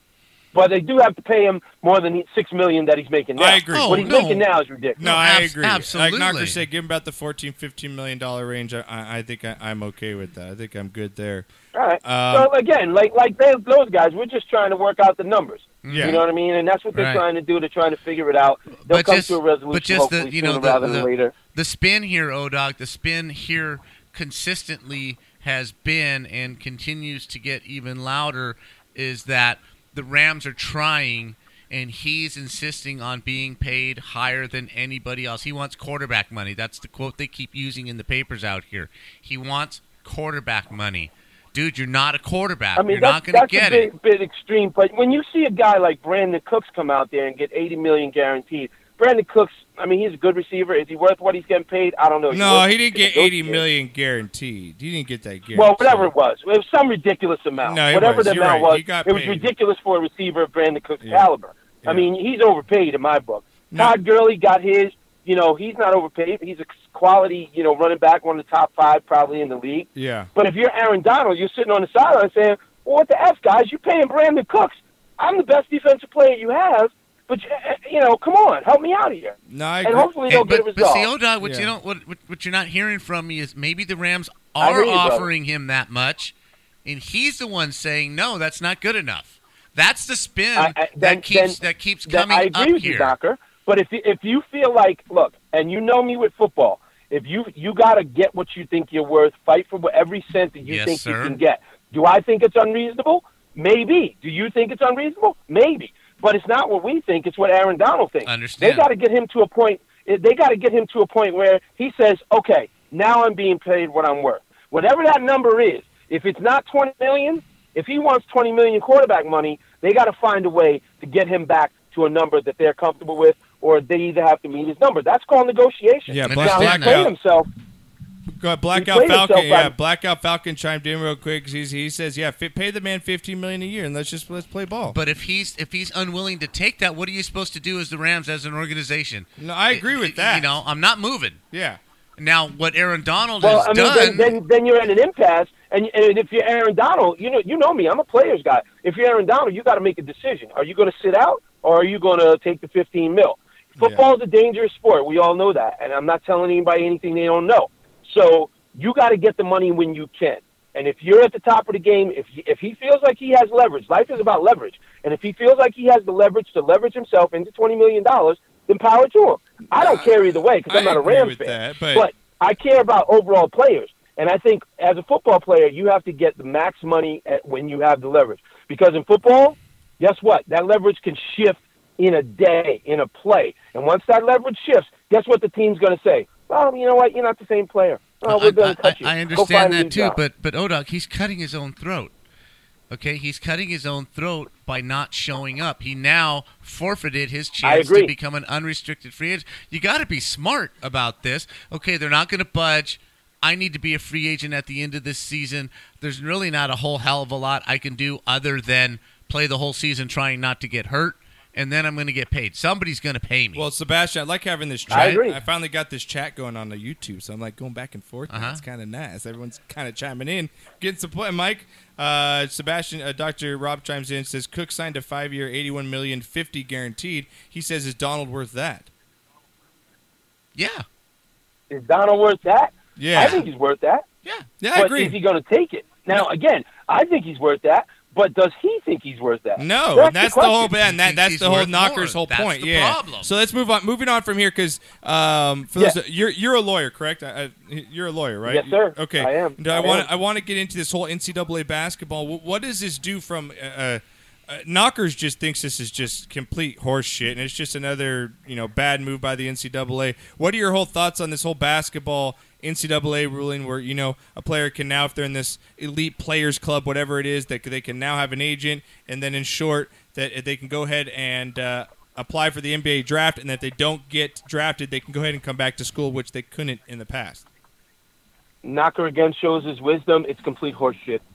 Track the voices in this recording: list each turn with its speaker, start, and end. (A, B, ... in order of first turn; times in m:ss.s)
0:00.5-0:05.0 A
0:03.4-0:04.2 B
0:03.7-0:04.4 C
0:05.0-0:11.5 B
0:05.0-0:06.6 C
0:11.7-0:21.3 A
0:12.0-0:12.5 B
0:15.8-0:16.2 C
0:15.9-0:16.2 B
0:16.9-0:17.2 C
0:18.8-0:43.9 C
0:42.8-0:53.6 A
0:52.3-0:56.1 B
0:55.5-1:21.1 A
0:57.6-0:59.5 B
1:01.0-1:01.3 B
1:01.8-1:02.1 B
1:09.9-1:10.3 B
1:19.5-1:20.1 B
1:20.3-1:26.3 C
1:21.4-1:21.7 B
1:24.6-1:25.3 A
1:26.8-1:33.1 C
1:30.6-2:07.5 A
1:40.6-1:41.4 C
1:48.2-1:48.8 C
2:06.1-2:07.1 B
2:06.2-2:07.0 C
2:08.4-2:15.0 B
2:08.7-2:09.7 A
2:14.9-2:21.4 C
2:19.4-2:20.6 B
2:21.5-2:21.8 B
2:22.2-2:24.4 C
2:23.4-3:10.2 A
2:33.8-2:34.0 B
2:49.7-2:52.1 B
3:08.2-3:12.1 C
3:12.9-3:33.6 C
3:17.6-3:18.1 A
3:33.5-3:48.9 B
3:34.9-3:35.2 C
3:34.9-3:35.4 A
3:38.3-3:38.6 C
3:50.6-3:50.8 C
3:51.7-3:54.0 A
3:53.0-3:53.4 B
3:54.6-3:55.2 B
3:54.7-4:00.7 A
3:59.6-4:37.4 B
4:00.8-4:03.3 C
4:08.4-4:10.1 A
4:38.6-4:41.2 A